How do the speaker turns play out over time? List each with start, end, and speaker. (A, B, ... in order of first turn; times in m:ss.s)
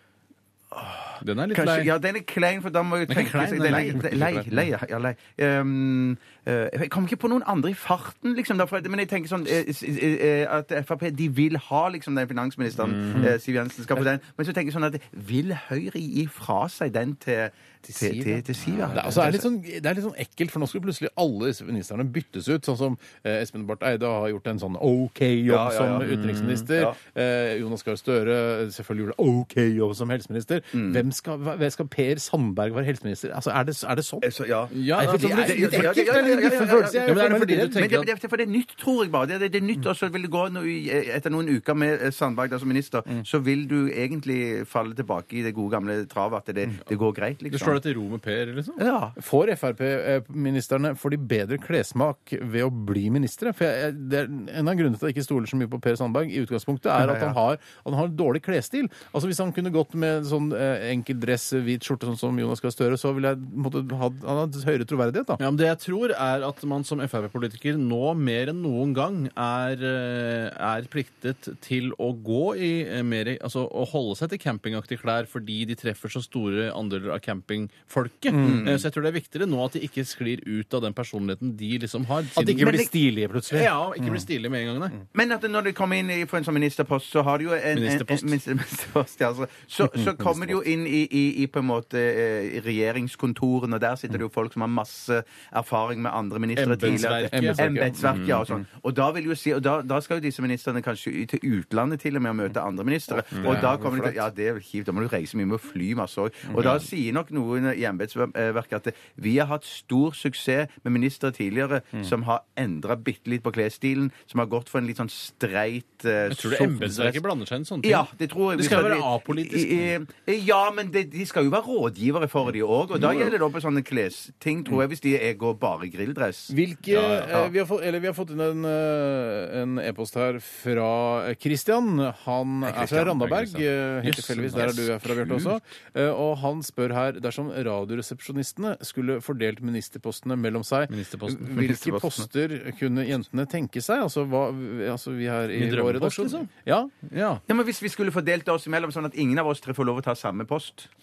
0:00.7-0:19.4 A
0:01.2-0:01.9 B
0:03.1-0:04.1 B
0:03.8-0:04.4 C
0:12.8-0:13.3 B
0:17.8-0:34.3 C
0:18.8-0:19.2 B
0:25.5-0:26.1 A
0:26.0-0:26.7 B
0:30.7-0:31.0 A
0:34.2-0:47.8 A
0:34.7-0:36.0 B
0:34.9-0:37.9 C
0:37.0-0:38.1 B
0:47.5-0:48.8 B
0:48.8-0:49.2 A
0:49.2-1:05.4 C
0:57.0-0:57.4 A
1:05.4-1:22.7 B
1:18.3-1:18.7 C
1:18.4-1:18.8 A
1:22.4-1:24.2 C
1:22.6-1:22.9 A
1:23.5-1:25.0 B
1:25.1-1:57.2 A
1:27.7-1:28.4 B
1:29.9-1:30.5 C
1:36.6-1:38.5 B
1:36.8-1:38.6 C
1:43.3-1:43.7 B
1:43.4-1:44.2 C
1:46.6-1:46.8 B
1:56.3-1:59.9 B
1:57.8-2:06.6 A
2:06.5-2:26.9 C
2:06.9-2:07.3 B
2:12.7-2:13.2 A
2:13.2-2:14.9 B
2:15.2-2:15.5 A
2:20.9-2:21.6 B
2:21.5-2:22.3 A
2:25.6-2:26.5 B
2:27.1-2:27.4 B
2:27.5-2:30.9 A